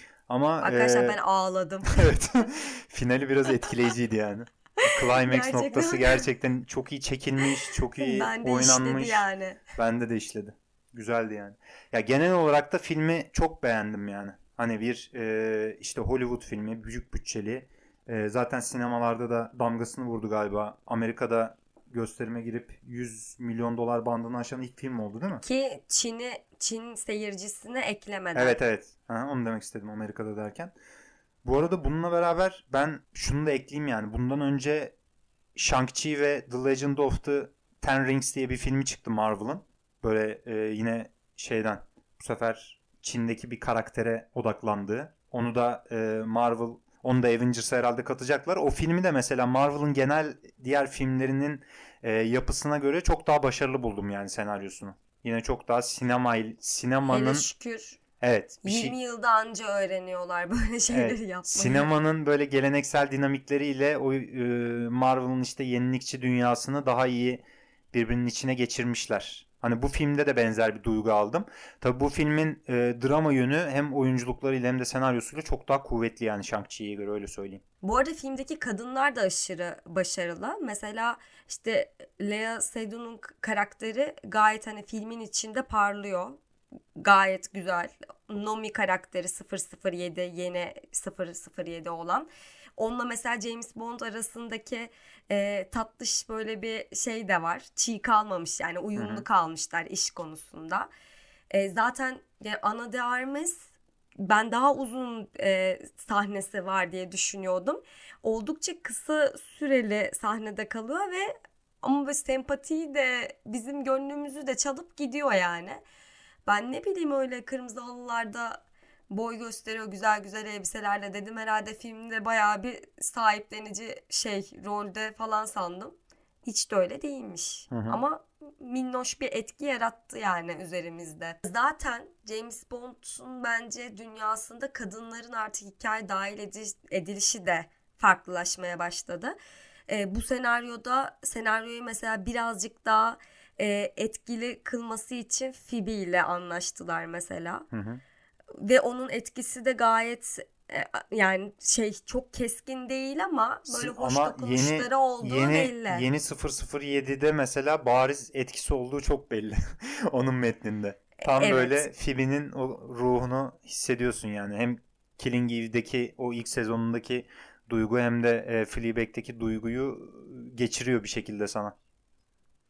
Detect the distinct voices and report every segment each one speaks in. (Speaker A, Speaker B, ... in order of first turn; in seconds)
Speaker A: 0.3-1.2, 1.9-25.4, 28.3-30.7, 31.4-34.9, 35.5-57.5, 58.2-58.9, 60.9-77.6, 99.0-99.2, 127.7-128.0, 147.7-148.0, 153.7-171.7
Speaker B: 0.6-2.1, 4.8-6.3, 8.0-9.6, 25.4-28.6, 57.1-58.0, 58.6-61.9, 77.8-86.4, 87.0-100.9, 101.5-103.5, 104.2-115.8, 116.5-139.3, 139.9-147.7, 148.6-156.1, 161.2-161.9